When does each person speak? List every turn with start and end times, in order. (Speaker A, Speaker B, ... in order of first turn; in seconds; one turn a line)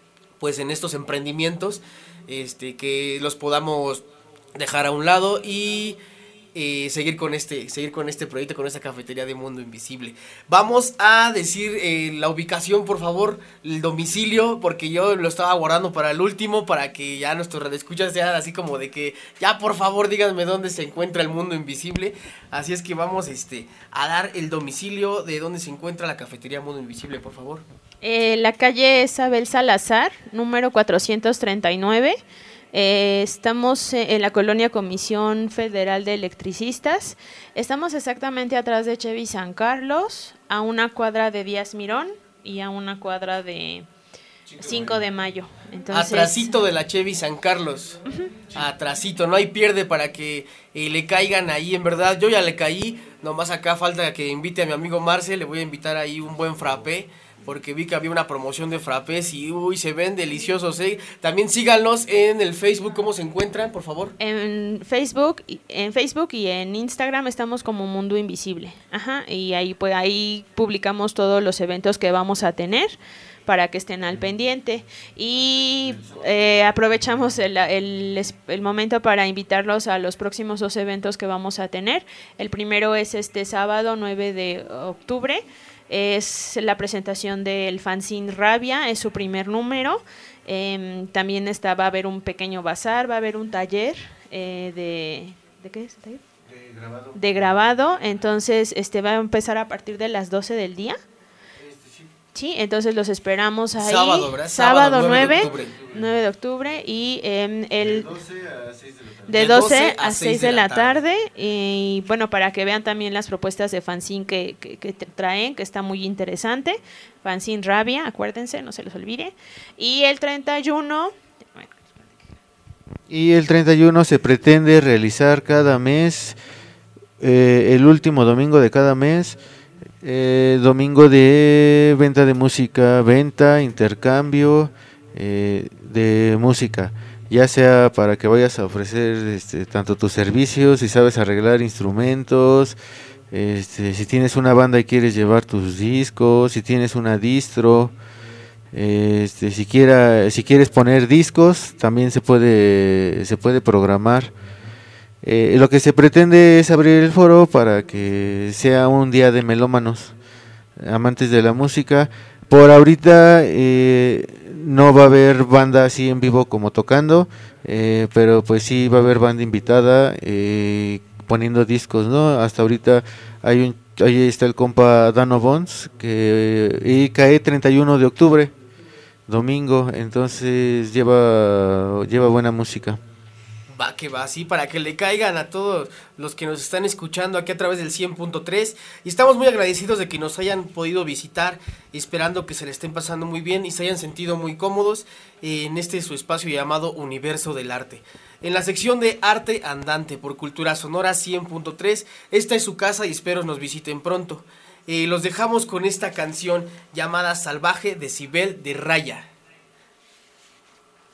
Speaker A: 0.4-6.0
Speaker A: 6.5-27.6
Speaker B: 28.0-32.2
Speaker B: 32.7-43.9
Speaker A: 44.5-45.0
Speaker B: 44.6-46.6
Speaker A: 45.9-48.0
Speaker A: 48.5-64.2
Speaker B: 64.2-96.2
Speaker C: 75.3-77.2
Speaker C: 96.5-98.3
Speaker B: 97.2-101.0
Speaker C: 101.6-102.2
Speaker B: 102.3-108.1
Speaker A: 103.8-105.8
Speaker C: 105.0-106.1
Speaker C: 107.8-109.4
Speaker B: 109.3-122.1
Speaker A: 109.3-111.0
Speaker C: 123.1-126.4
Speaker C: 127.2-129.4
Speaker C: 130.0-142.8
Speaker C: 143.3-147.9
Speaker C: 148.7-154.3
Speaker C: 155.2-160.2
Speaker C: 160.8-178.5
Speaker C: 179.3-183.0
Speaker A: 183.7-209.3